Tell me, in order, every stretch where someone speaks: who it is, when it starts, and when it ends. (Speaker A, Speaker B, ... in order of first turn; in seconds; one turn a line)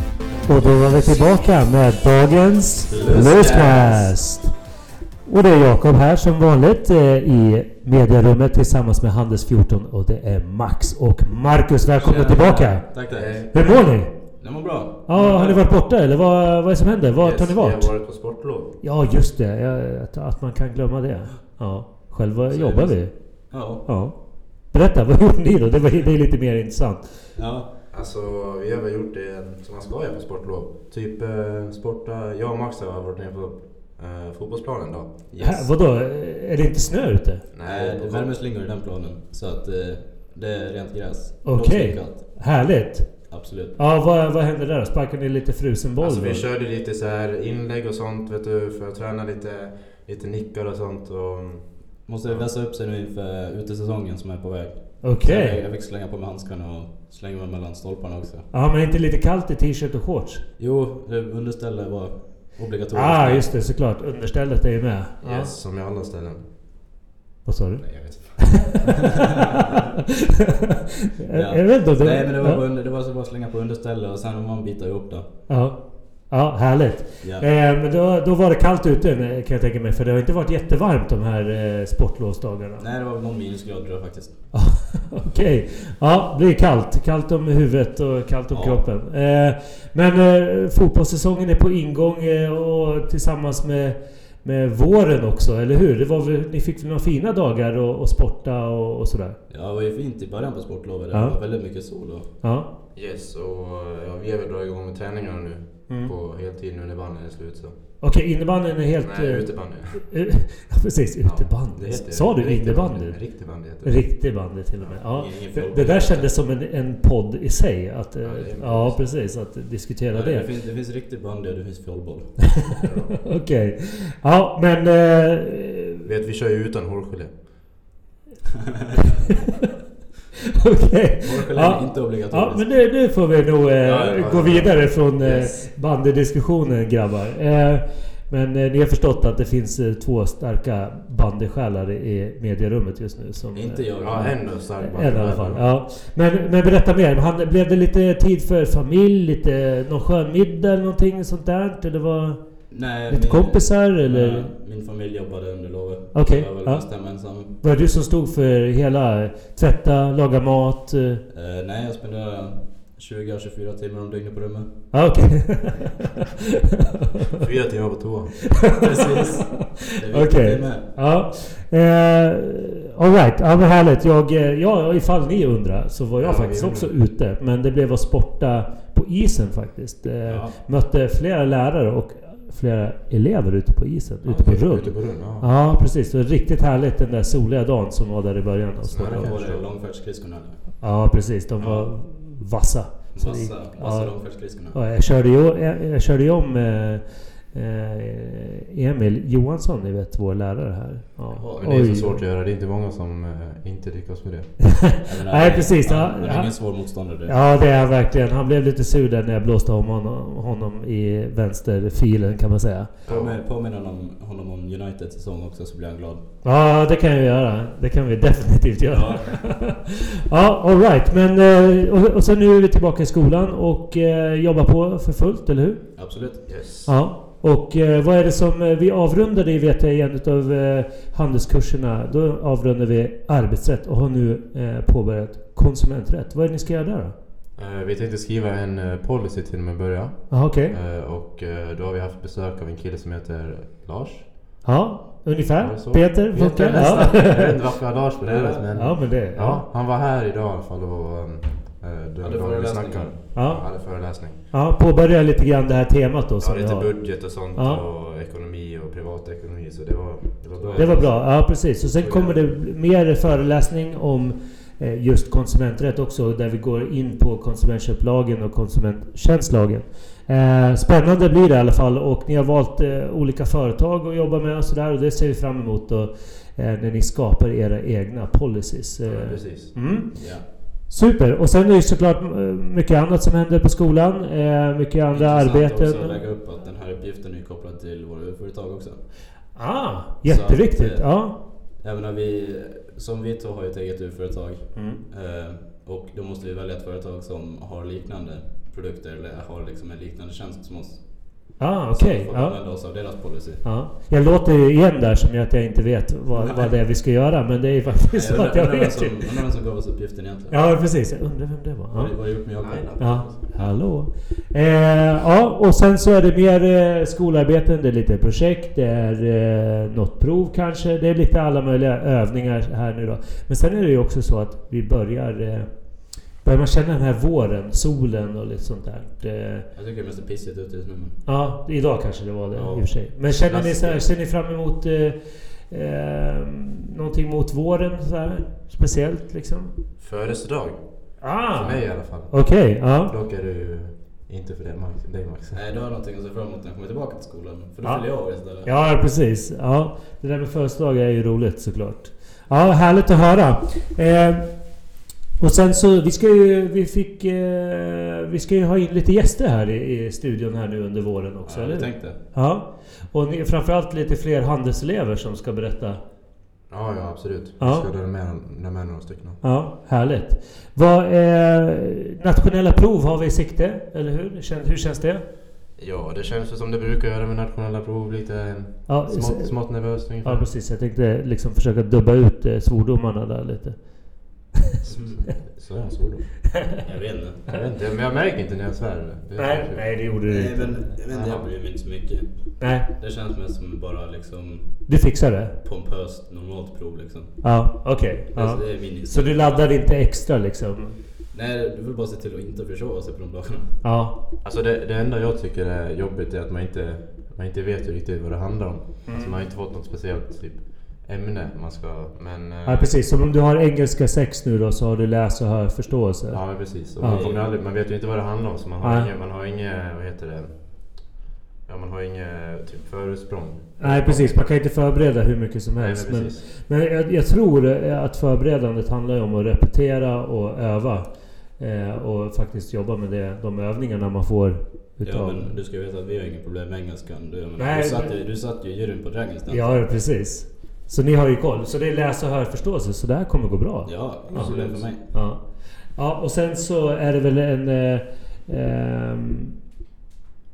Speaker A: 0.5-4.5
Speaker B: 2.9-4.1
Speaker C: 2.9-3.8
Speaker A: 5.2-12.9
Speaker B: 11.9-13.5
Speaker C: 13.1-13.9
Speaker A: 13.5-14.2
Speaker B: 14.4-15.6
Speaker A: 15.1-18.1
Speaker C: 17.2-18.7
Speaker A: 18.8-27.1
Speaker B: 22.5-23.9
Speaker B: 27.4-27.7
Speaker C: 27.9-35.2
Speaker B: 35.3-35.7
Speaker A: 35.4-37.5
Speaker C: 37.5-38.3
Speaker B: 37.6-42.4
Speaker A: 41.4-46.4
Speaker B: 43.3-43.8
Speaker C: 46.0-51.7
Speaker B: 52.0-58.5
Speaker A: 55.0-55.6
Speaker A: 58.5-60.4
Speaker B: 60.6-63.5
Speaker A: 62.9-65.5
Speaker C: 65.2-66.4
Speaker A: 67.4-68.8
Speaker C: 67.8-68.9
Speaker B: 69.1-69.5
Speaker A: 70.4-72.6
Speaker B: 71.3-75.3
Speaker A: 75.5-82.8
Speaker B: 77.2-77.5
Speaker B: 82.8-84.4
Speaker A: 84.5-99.4
Speaker B: 88.5-88.8
Speaker B: 99.5-102.2
Speaker A: 101.1-101.4
Speaker A: 102.4-102.7
Speaker C: 103.0-107.7
Speaker A: 108.0-120.5
Speaker C: 109.0-110.0
Speaker C: 111.2-114.1
Speaker B: 115.0-116.3
Speaker C: 118.2-119.0
Speaker B: 120.1-122.4
Speaker C: 122.8-123.2
Speaker A: 123.2-126.1
Speaker C: 126.0-127.3
Speaker A: 130.6-152.4
Speaker B: 131.2-132.8
Speaker C: 133.8-135.5
Speaker B: 143.5-144.3
Speaker C: 144.0-145.7
Speaker B: 152.7-157.6
Speaker A: 153.1-154.5
Speaker A: 156.1-161.2
Speaker B: 161.3-165.2
Speaker A: 164.9-166.0
Speaker C: 167.4-168.5
Speaker A: 168.6-168.8
Speaker B: 168.8-170.9
Speaker A: 169.6-189.3
Speaker C: 176.2-176.9
Speaker B: 180.2-180.5
Speaker C: 184.2-185.5
Speaker C: 188.9-189.7
Speaker B: 189.0-190.6
Speaker A: 190.8-202.2
Speaker B: 191.6-191.9
Speaker B: 193.1-194.8
Speaker B: 201.3-201.7
Speaker C: 201.6-204.7
Speaker A: 204.8-206.6
Speaker B: 205.0-207.4
Speaker A: 207.2-212.9
Speaker C: 213.0-213.4
Speaker B: 213.1-216.2
Speaker A: 216.4-226.0
Speaker B: 218.9-219.5
Speaker B: 225.9-226.4
Speaker C: 226.5-226.9
Speaker A: 226.8-237.1
Speaker C: 237.6-244.3
Speaker A: 240.3-240.8
Speaker A: 244.6-247.6
Speaker C: 245.6-254.4
Speaker B: 246.6-247.1
Speaker B: 248.2-248.7
Speaker A: 248.7-249.6
Speaker B: 252.2-253.2
Speaker A: 253.3-253.9
Speaker A: 254.5-257.8
Speaker C: 256.4-261.2
Speaker B: 260.6-261.4
Speaker A: 260.7-286.2
Speaker B: 262.0-262.4
Speaker C: 279.0-279.8
Speaker B: 280.1-280.4
Speaker B: 285.1-289.1
Speaker A: 289.6-291.4
Speaker B: 290.2-303.7
Speaker A: 294.7-295.0
Speaker A: 301.6-309.3
Speaker B: 306.3-306.8
Speaker B: 308.1-310.7
Speaker A: 310.5-312.2
Speaker B: 311.9-313.4
Speaker C: 312.6-313.7
Speaker A: 313.0-325.7
Speaker A: 326.4-329.7
Speaker B: 329.7-331.2
Speaker A: 331.2-335.2
Speaker B: 332.5-332.9
Speaker C: 333.3-334.0
Speaker A: 335.7-339.7
Speaker C: 340.0-340.8
Speaker A: 341.2-343.1
Speaker C: 341.3-345.6
Speaker B: 345.5-348.7
Speaker A: 347.8-354.5
Speaker A: 355.4-366.0
Speaker B: 361.4-362.2
Speaker C: 366.7-369.4
Speaker A: 367.6-367.9
Speaker A: 369.4-375.2
Speaker C: 375.8-380.5
Speaker A: 378.9-383.8
Speaker B: 384.8-387.4
Speaker C: 387.5-389.8
Speaker A: 389.4-391.0
Speaker B: 390.3-397.6
Speaker C: 391.1-391.4
Speaker A: 392.6-392.9
Speaker A: 394.9-395.5
Speaker A: 397.4-401.0
Speaker B: 398.3-399.7
Speaker B: 401.3-403.8
Speaker A: 403.8-404.2
Speaker C: 404.4-412.9
Speaker A: 409.1-409.4
Speaker A: 412.6-417.2
Speaker C: 416.3-420.6
Speaker B: 417.0-417.4
Speaker A: 418.8-419.1
Speaker C: 421.6-424.4
Speaker A: 423.8-435.5
Speaker C: 425.8-426.4
Speaker B: 435.0-439.8
Speaker A: 437.6-438.1
Speaker A: 439.5-445.4
Speaker B: 443.8-445.1
Speaker C: 444.3-444.8
Speaker A: 445.9-449.5